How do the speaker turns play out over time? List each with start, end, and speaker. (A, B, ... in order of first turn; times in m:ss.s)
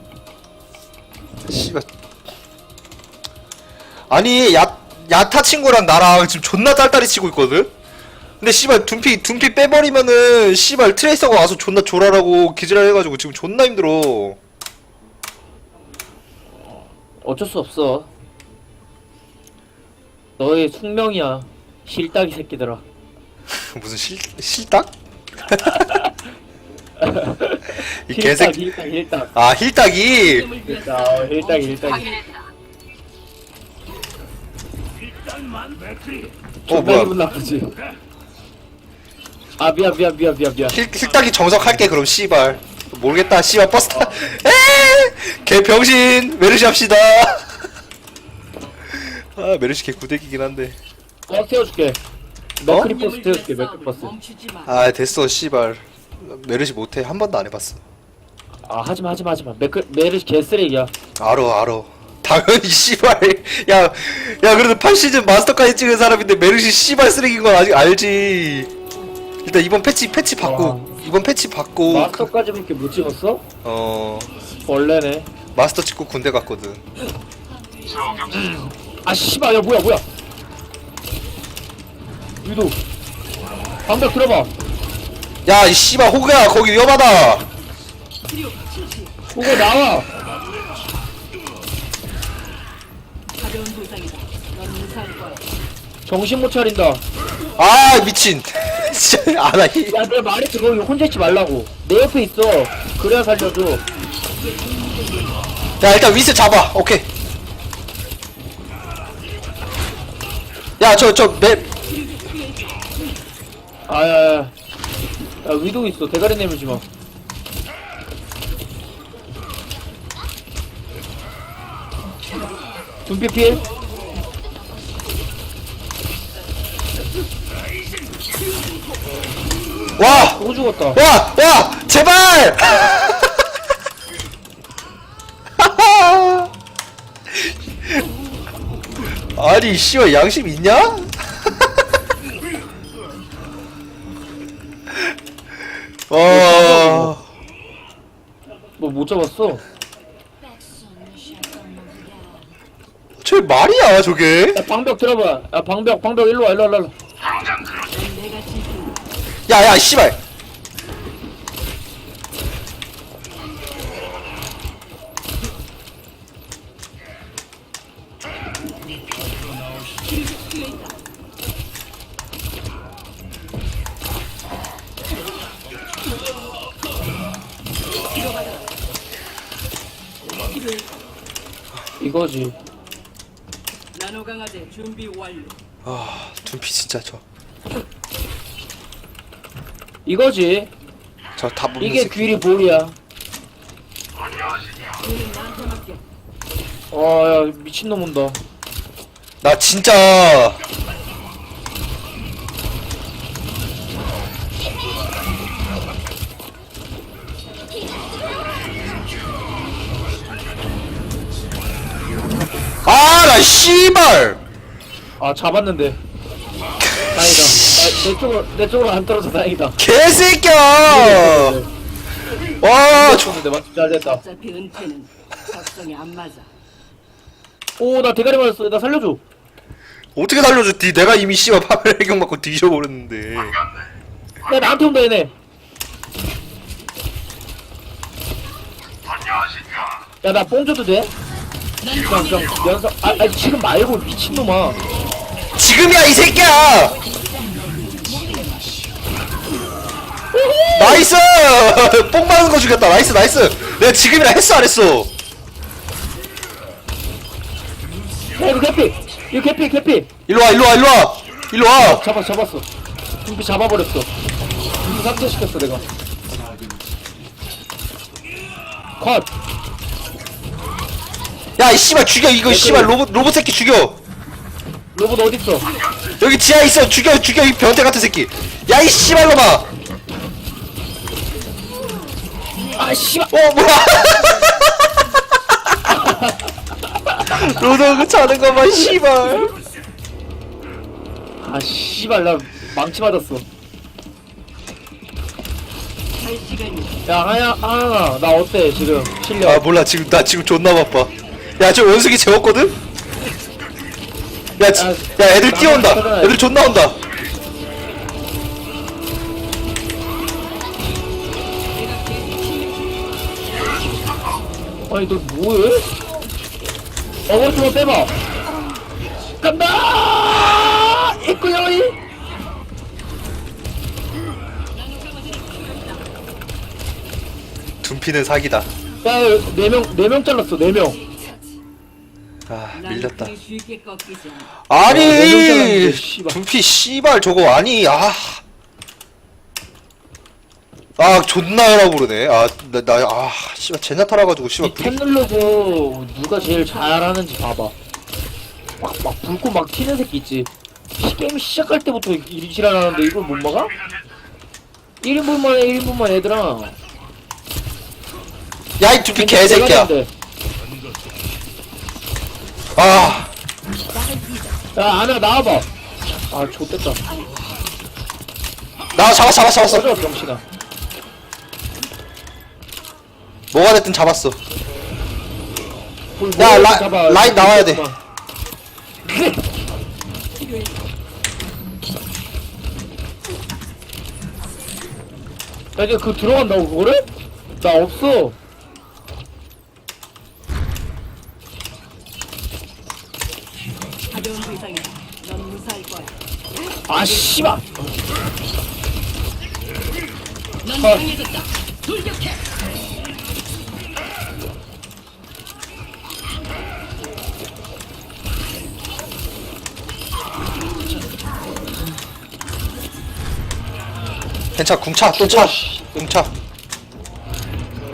0:01.5-0:01.8 A
0:04.1-0:07.7 A
0:08.4-0:14.4 A
0:16.6-0:18.1 B
0:20.4-0:22.8 B
0:23.5-0:24.9 A
0:25.5-0:25.8 A
0:27.0-0:29.3 B
0:28.0-0:28.6 A
0:29.4-0:30.5 A
0:30.2-0:32.3 C
0:30.6-0:32.1 B
0:36.7-0:37.7 B
0:36.7-0:37.1 A
0:39.6-0:40.8 B
0:40.7-0:47.5 A
0:48.9-0:50.8 A
0:51.3-0:52.0 B
0:52.6-0:54.1 B
0:52.8-0:54.8 C
0:54.6-0:57.8 A
0:58.6-1:00.9 B
1:01.2-1:08.7 A
1:09.4-1:12.3 A
1:10.4-1:10.9 B
1:11.9-1:13.4 B
1:13.6-1:14.3 A
1:14.6-1:15.3 B
1:15.5-1:16.8 A
1:18.3-1:20.0 B
1:22.4-1:22.8 B
1:23.8-1:24.5 B
1:25.4-1:27.4 A
1:28.3-1:29.1 C
1:29.3-1:30.1 B
1:33.4-1:35.4 C
1:36.0-1:37.0 B
1:37.6-1:40.0 A
1:39.9-1:43.8 B
1:44.4-1:45.5 C
1:45.8-1:47.0 A
1:50.8-1:51.6 A
1:51.9-1:53.0 C
1:53.9-1:54.5 B
1:55.4-1:56.8 B
2:03.0-2:03.6 B
2:10.0-2:10.4 A
2:10.0-2:11.0 B
2:10.9-2:13.4 A
2:15.6-2:16.5 A
2:19.3-2:21.4 A
2:26.1-2:27.2 A
2:26.2-2:27.2 B
2:28.8-2:29.6 B
2:31.8-2:32.2 C
2:33.2-2:34.6 A
2:34.5-2:36.9 B
2:37.8-2:39.0 C
2:39.5-2:40.2 A
2:50.0-2:50.9 C
2:58.1-2:58.8 C
3:00.4-3:00.9 C
3:02.0-3:02.6 B
3:03.9-3:05.6 C
3:05.8-3:07.2 A
3:10.0-3:10.7 B
3:11.4-3:12.3 A
3:11.8-3:12.9 B
3:15.0-3:16.0 C
3:16.9-3:18.4 B
3:19.4-3:20.6 A
3:32.8-3:34.4 A
3:35.2-3:36.0 B
3:37.0-3:39.8 B
3:37.1-3:37.7 A
3:39.8-3:41.6 A
3:40.9-3:41.7 B
3:42.6-3:43.4 A
3:42.8-3:44.2 B
3:44.0-3:46.5 C
3:47.8-3:49.2 B
3:50.2-3:53.6 A
3:54.4-3:55.3 B
4:00.2-4:01.1 B
4:01.8-4:02.2 C
4:01.9-4:04.8 B
4:05.5-4:07.0 A
4:07.4-4:08.7 C
4:10.3-4:11.1 B
4:10.7-4:15.1 A
4:18.4-4:20.1 B
4:20.3-4:22.0 A
4:21.8-4:22.6 B
4:23.2-4:24.1 B
4:24.8-4:25.8 B
4:29.0-4:29.3 B
4:31.6-4:34.0 A
4:32.4-4:32.9 B
4:34.9-4:35.7 B
4:36.2-4:39.7 A
4:42.7-4:43.3 B
4:43.3-4:45.0 A
4:45.8-4:46.5 B
4:47.2-4:49.6 A
4:51.4-4:53.4 B
4:56.2-4:57.0 C
4:57.0-4:59.6 B
4:59.4-5:02.8 A
5:04.6-5:07.0 A
5:04.7-5:06.5 B
5:11.7-5:13.2 C
5:14.9-5:15.9 B
5:17.3-5:18.1 B
5:19.4-5:22.0 B
5:24.7-5:26.0 C
5:27.8-5:28.7 A
5:29.0-5:31.0 B
5:32.5-5:33.3 A
5:32.7-5:34.5 C
5:34.7-5:38.4 A
5:34.7-5:36.4 B
5:41.0-5:45.0 A
5:44.6-5:47.7 B
5:48.8-5:53.7 B
5:55.0-5:56.8 B
5:58.8-5:59.9 A
5:59.1-6:00.1 B
6:02.8-6:03.3 A
6:04.0-6:04.4 C
6:04.7-6:05.7 B
6:06.3-6:07.0 B
6:08.9-6:09.9 A
6:09.6-6:10.4 B
6:13.5-6:14.4 A
6:16.2-6:18.0 B
6:16.4-6:17.8 A
6:19.0-6:19.4 B
6:20.4-6:20.7 C
6:25.8-6:27.0 B
6:27.6-6:28.4 B
6:34.1-6:36.1 C
6:36.8-6:37.8 B
6:40.7-6:42.3 C
6:40.8-6:41.1 B
6:54.5-6:56.3 A
6:55.0-6:56.0 B